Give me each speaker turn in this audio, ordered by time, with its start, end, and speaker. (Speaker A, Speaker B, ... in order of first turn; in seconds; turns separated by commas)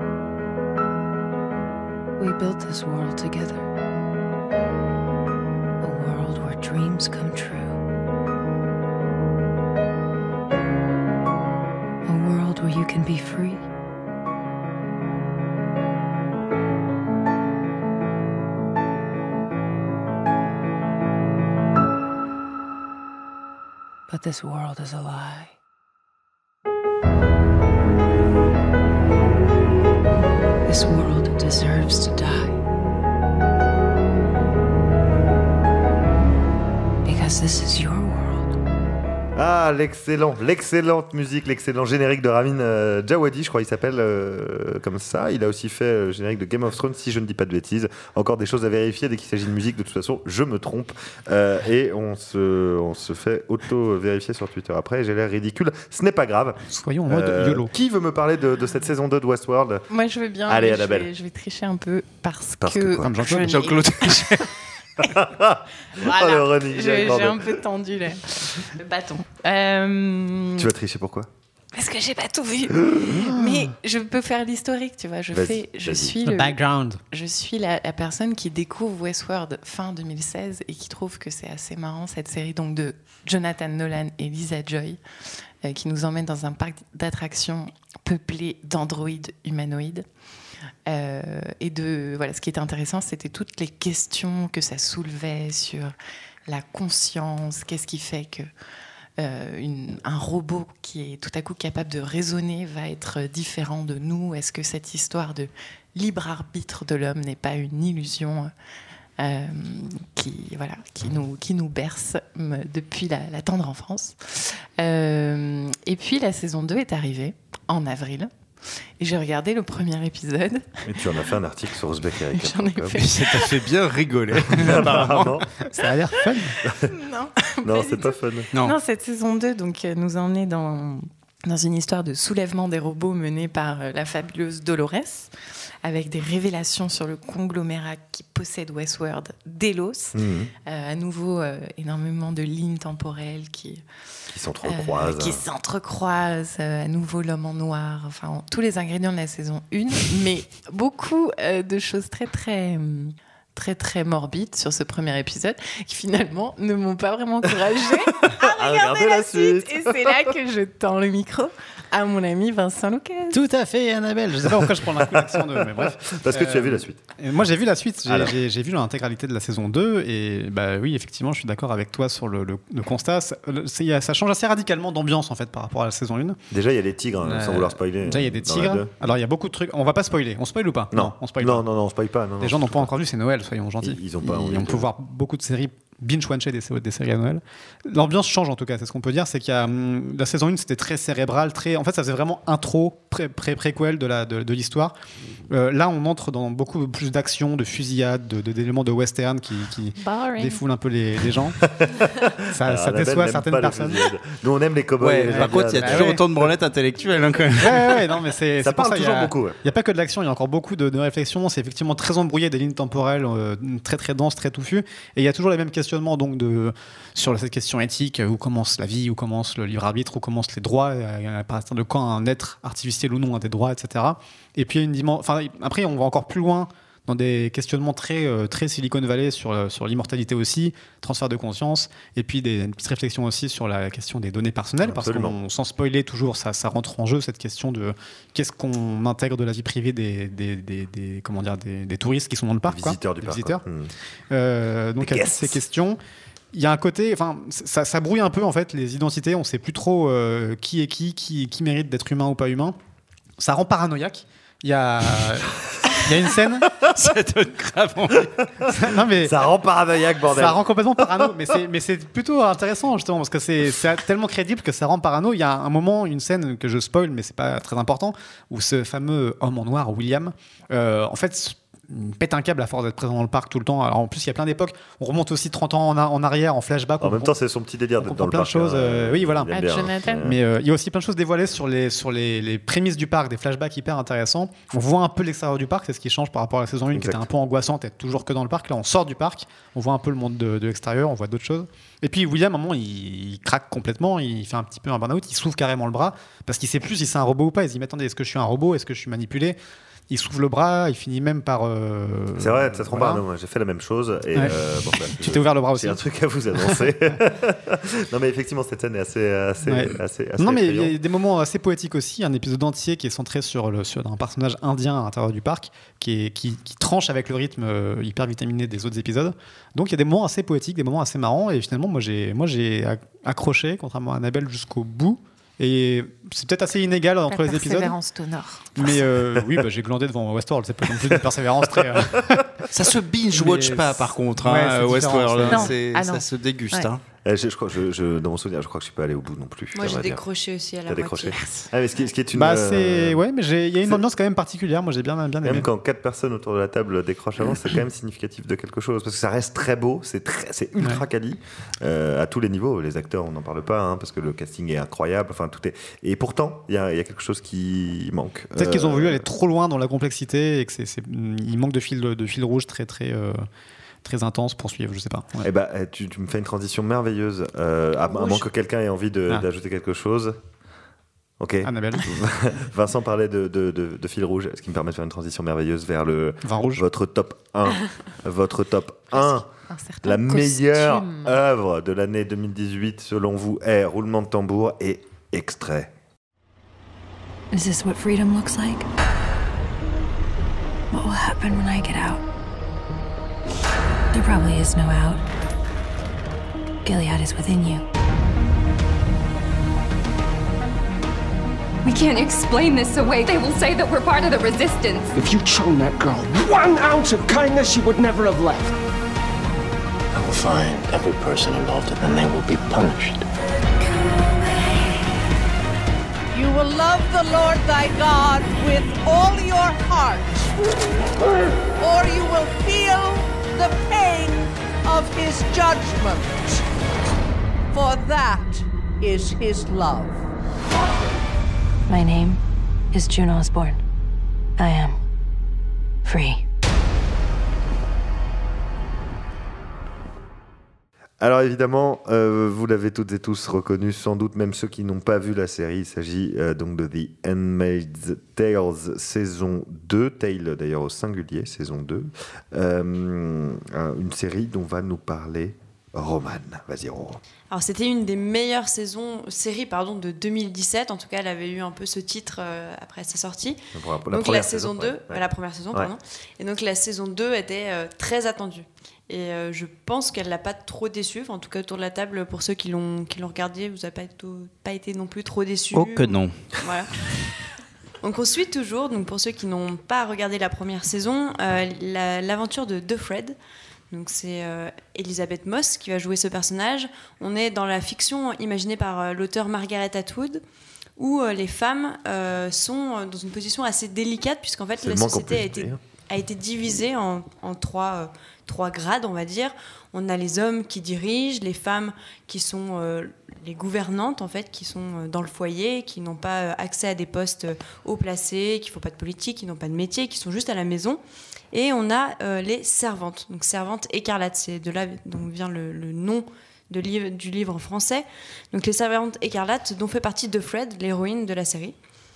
Speaker A: 2.2-3.7, Speaker A: 5.8-7.8, Speaker A: 12.1-13.7, Speaker A: 24.1-25.6, Speaker A: 30.7-32.6, Speaker A: 37.0-38.6, Speaker B: 39.4-59.9, Speaker C: 56.7-57.7, Speaker D: 59.9-64.5, Speaker B: 60.5-61.1, Speaker B: 62.6-63.1, Speaker C: 63.0-63.6, Speaker E: 63.3-64.5, Speaker B: 65.0-67.7, Speaker D: 65.9-70.7, Speaker B: 70.6-71.3, Speaker D: 71.7-76.6, Speaker B: 72.9-73.2, Speaker C: 73.2-73.5, Speaker B: 75.3-76.2, Speaker C: 76.2-77.0, Speaker D: 77.1-85.0, Speaker D: 85.6-90.0, Speaker D: 90.9-95.9, Speaker D: 96.5-98.5, Speaker D: 99.2-108.5, Speaker D: 109.2-118.3, Speaker D: 119.0-120.8, Speaker B: 120.8-123.1, Speaker D: 122.3-123.6, Speaker E: 123.0-125.4, Speaker B: 124.5-125.5, Speaker C: 125.6-126.6, Speaker D: 126.3-143.8, Speaker B: 126.6-126.9, Speaker B: 127.6-128.5, Speaker B: 140.1-140.5, Speaker B: 144.3-145.4, Speaker D: 144.7-163.4, Speaker B: 157.8-160.4, Speaker C: 163.3-176.4, Speaker B: 164.6-167.0, Speaker B: 168.1-168.3, Speaker B: 176.5-178.9, Speaker C: 177.2-181.7, Speaker B: 180.9-182.9, Speaker C: 182.4-194.9, Speaker B: 183.8-184.9, Speaker C: 195.5-201.6, Speaker D: 200.0-200.6, Speaker B: 201.6-206.4, Speaker C: 202.5-204.0, Speaker E: 205.0-208.0, Speaker C: 205.3-206.2, Speaker C: 207.6-243.6, Speaker B: 208.6-209.6, Speaker B: 234.8-235.4, Speaker B: 242.7-243.9, Speaker C: 244.3-246.0, Speaker B: 245.1-245.5, Speaker C: 246.5-252.8, Speaker C: 253.4-256.7, Speaker E: 256.8-258.3, Speaker B: 258.6-261.4, Speaker C: 258.7-259.4, Speaker C: 260.3-277.3, Speaker B: 277.0-280.4, Speaker C: 278.0-279.5, Speaker D: 279.5-280.3, Speaker C: 280.2-299.6, Speaker B: 286.9-287.3, Speaker C: 300.1-303.2, Speaker B: 302.4-311.0, Speaker C: 305.2-306.0, Speaker C: 309.7-328.0, Speaker D: 327.3-328.9, Speaker C: 328.8-332.5, Speaker B: 331.8-332.4, Speaker E: 332.7-337.0, Speaker C: 333.3-335.7, Speaker D: 335.5-336.9, Speaker B: 337.2-340.2, Speaker F: 339.7-341.4, Speaker B: 340.9-343.2, Speaker D: 341.4-341.6, Speaker C: 342.4-345.7, Speaker B: 345.4-359.2, Speaker C: 358.6-363.4, Speaker C: 364.0-365.5, Speaker B: 365.4-370.4, Speaker B: 371.4-379.5, Speaker C: 371.6-372.1, Speaker C: 376.4-376.8, Speaker D: 379.1-381.4, Speaker B: 380.0-385.9, Speaker A: 387.5-388.9, Speaker A: 390.9-392.2, Speaker A: 394.1-395.2, Speaker A: 396.8-397.9, Speaker G: 401.8-405.1, Speaker H: 405.1-408.8, Speaker I: 410.1-413.3, Speaker J: 416.3-420.5, Speaker J: 421.8-426.6, Speaker J: 427.7-430.2, Speaker A: 431.9-432.4, Speaker A: 432.9-433.8, Speaker A: 434.6-435.0, Speaker A: 436.1-436.4, Speaker B: 441.2-457.2, Speaker F: 457.5-476.9, Speaker B: 463.7-465.9, Speaker E: 475.7-476.6, Speaker F: 478.0-483.4, Speaker F: 483.9-490.4, Speaker F: 491.0-511.0, Speaker B: 494.8-495.8, Speaker F: 511.5-521.8